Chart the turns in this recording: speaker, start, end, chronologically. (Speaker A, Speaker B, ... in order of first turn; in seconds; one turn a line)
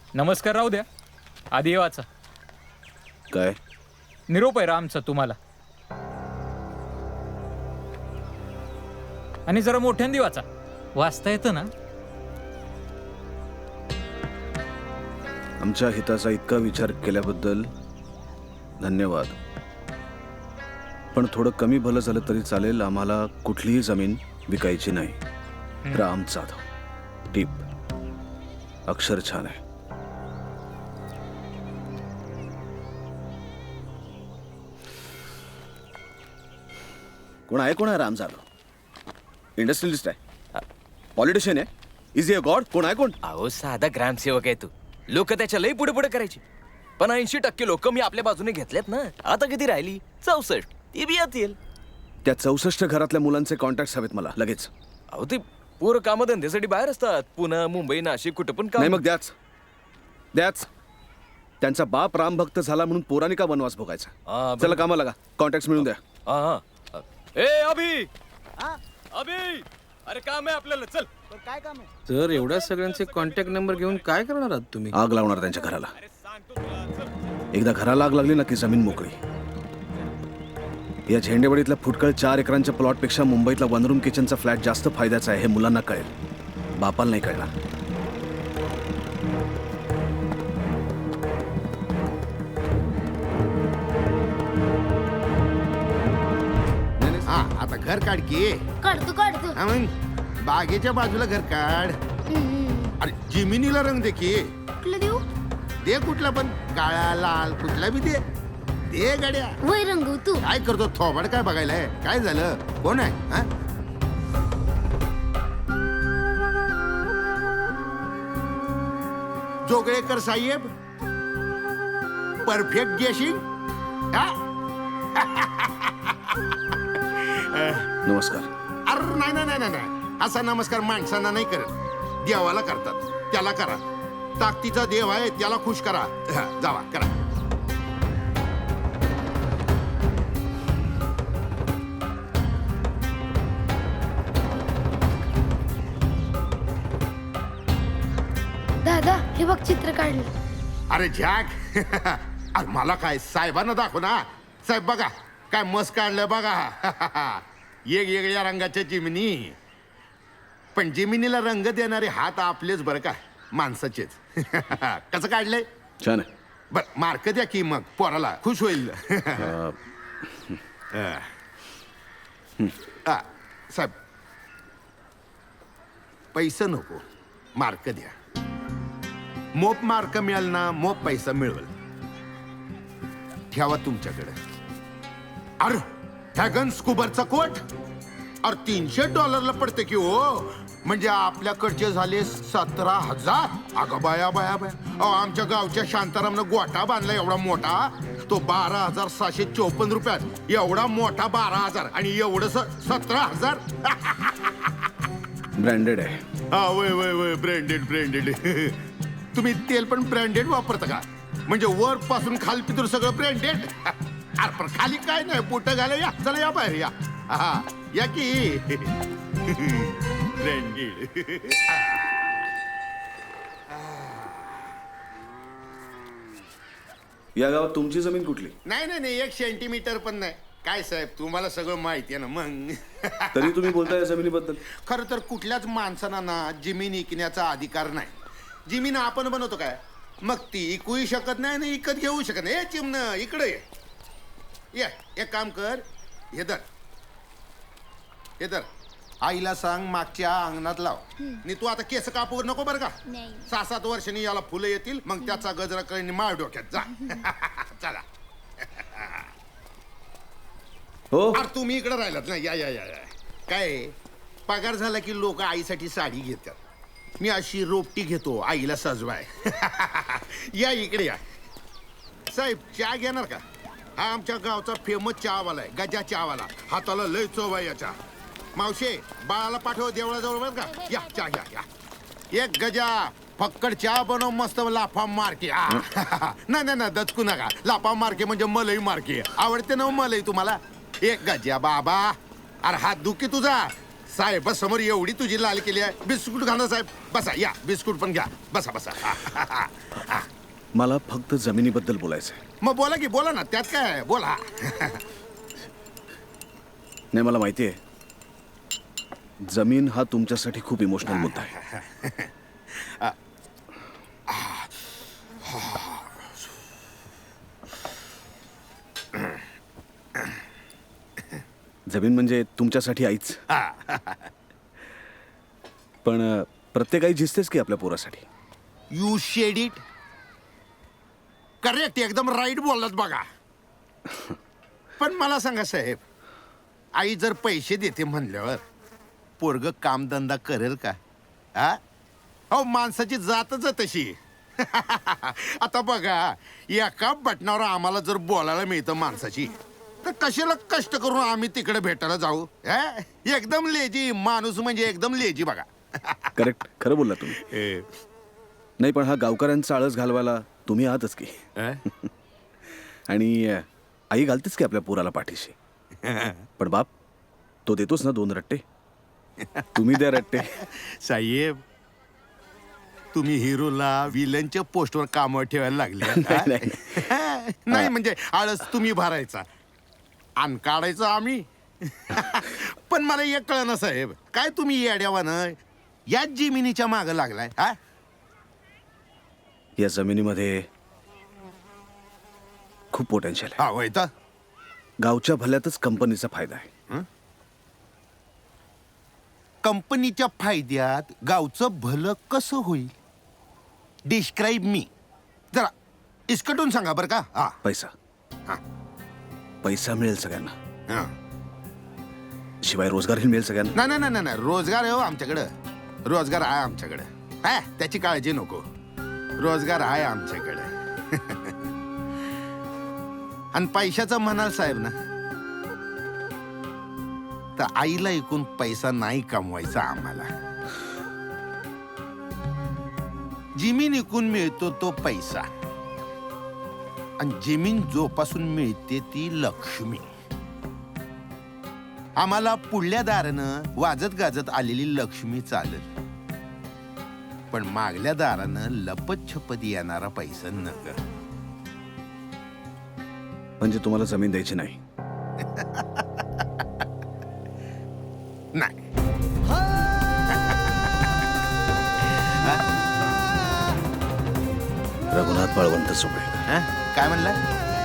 Speaker A: 0.1-0.9
Speaker A: 1.5-2.1
Speaker B: 3.3-3.6
Speaker A: 4.3-5.4
Speaker A: 9.5-11.7
Speaker B: 15.6-17.7
Speaker B: 18.8-19.4
Speaker B: 21.1-25.2
Speaker B: 25.9-26.6
Speaker B: 27.3-27.6
Speaker B: 28.9-29.6
Speaker B: 37.5-38.4
Speaker B: 39.6-40.2
Speaker B: 41.2-43.2
Speaker C: 43.2-46.4
Speaker C: 47.0-51.6
Speaker B: 52.2-54.7
Speaker C: 55.1-59.0
Speaker B: 58.8-59.4
Speaker B: 60.3-60.7
Speaker B: 61.6-66.0
Speaker C: 64.3-64.9
Speaker C: 65.8-68.1
Speaker C: 69.1-71.1
Speaker D: 72.1-75.0
Speaker C: 72.2-74.2
Speaker B: 74.9-75.9
Speaker C: 76.0-77.1
Speaker B: 77.5-79.2
Speaker B: 81.1-86.1
Speaker B: 86.8-87.5
Speaker B: 97.0-97.4
Speaker E: 97.3-98.6
Speaker F: 98.8-99.5
Speaker E: 99.6-99.9
Speaker E: 100.4-102.0
Speaker F: 102.3-103.0
Speaker E: 103.0-104.5
Speaker F: 104.8-105.2
Speaker E: 105.8-108.2
Speaker E: 108.9-109.6
Speaker F: 109.6-110.4
Speaker E: 110.4-113.5
Speaker E: 119.7-120.7
Speaker E: 122.4-123.4
Speaker E: 125.2-127.9
Speaker B: 128.1-128.5
Speaker E: 128.9-133.8
Speaker E: 134.4-137.2
Speaker F: 148.8-150.3
Speaker E: 150.9-159.6
Speaker E: 160.8-165.7
Speaker B: 166.0-166.3
Speaker E: 166.7-169.5
Speaker B: 169.4-169.8
Speaker E: 170.9-171.3
Speaker E: 173.1-173.9
Speaker E: 176.3-177.0
Speaker E: 177.6-178.1
Speaker E: 179.6-181.7
Speaker E: 183.5-184.4
Speaker E: 186.3-187.6
Speaker E: 188.4-204.7
Speaker B: 205.6-206.2
Speaker E: 206.5-208.8
Speaker E: 209.3-218.9
Speaker E: 219.5-222.0
Speaker B: 227.4-228.6
Speaker E: 228.7-233.8
Speaker B: 233.3-234.6
Speaker E: 234.7-243.6
Speaker E: 244.7-246.6
Speaker E: 248.4-248.7
Speaker E: 249.2-253.0
Speaker E: 253.5-258.0
Speaker E: 258.6-259.3
Speaker B: 261.1-261.4
Speaker E: 261.3-263.9
Speaker E: 264.5-266.6
Speaker E: 267.2-271.2
Speaker E: 272.3-273.4
Speaker E: 274.0-278.0
Speaker E: 278.6-281.7
Speaker E: 282.3-300.2
Speaker B: 300.8-302.4
Speaker E: 302.6-305.0
Speaker B: 307.1-307.8
Speaker B: 309.5-311.5
Speaker E: 311.1-313.1
Speaker E: 314.3-314.6
Speaker E: 315.4-316.2
Speaker B: 321.9-323.4
Speaker E: 323.5-324.3
Speaker B: 326.0-328.3
Speaker E: 328.9-329.8
Speaker E: 331.6-333.2
Speaker E: 335.0-336.0
Speaker E: 337.0-338.6
Speaker E: 339.4-341.0
Speaker E: 342.5-349.5
Speaker E: 350.0-356.4
Speaker B: 356.4-357.4
Speaker E: 357.3-357.9
Speaker B: 358.8-361.4
Speaker E: 361.6-361.8
Speaker B: 363.1-365.6
Speaker E: 366.0-366.4
Speaker B: 366.6-366.9
Speaker B: 367.7-368.6
Speaker E: 369.4-371.6
Speaker B: 369.8-370.5
Speaker E: 373.1-379.4
Speaker B: 376.1-377.0
Speaker E: 380.4-385.6
Speaker E: 386.1-387.8
Speaker B: 389.8-390.7
Speaker B: 392.9-393.6
Speaker E: 393.6-394.1
Speaker B: 395.0-396.7
Speaker E: 399.6-402.9
Speaker E: 404.1-404.9
Speaker E: 406.3-407.6
Speaker B: 407.6-407.9
Speaker B: 409.6-410.6
Speaker B: 412.6-413.8
Speaker E: 413.8-415.5
Speaker E: 416.1-418.7
Speaker E: 419.4-421.6
Speaker E: 423.5-424.9
Speaker E: 427.6-430.3
Speaker E: 433.6-435.5
Speaker E: 437.2-440.1
Speaker E: 442.2-445.9
Speaker E: 447.5-451.0
Speaker B: 453.6-454.8
Speaker E: 455.4-456.0
Speaker E: 462.2-462.6
Speaker B: 465.1-466.4
Speaker E: 466.5-467.4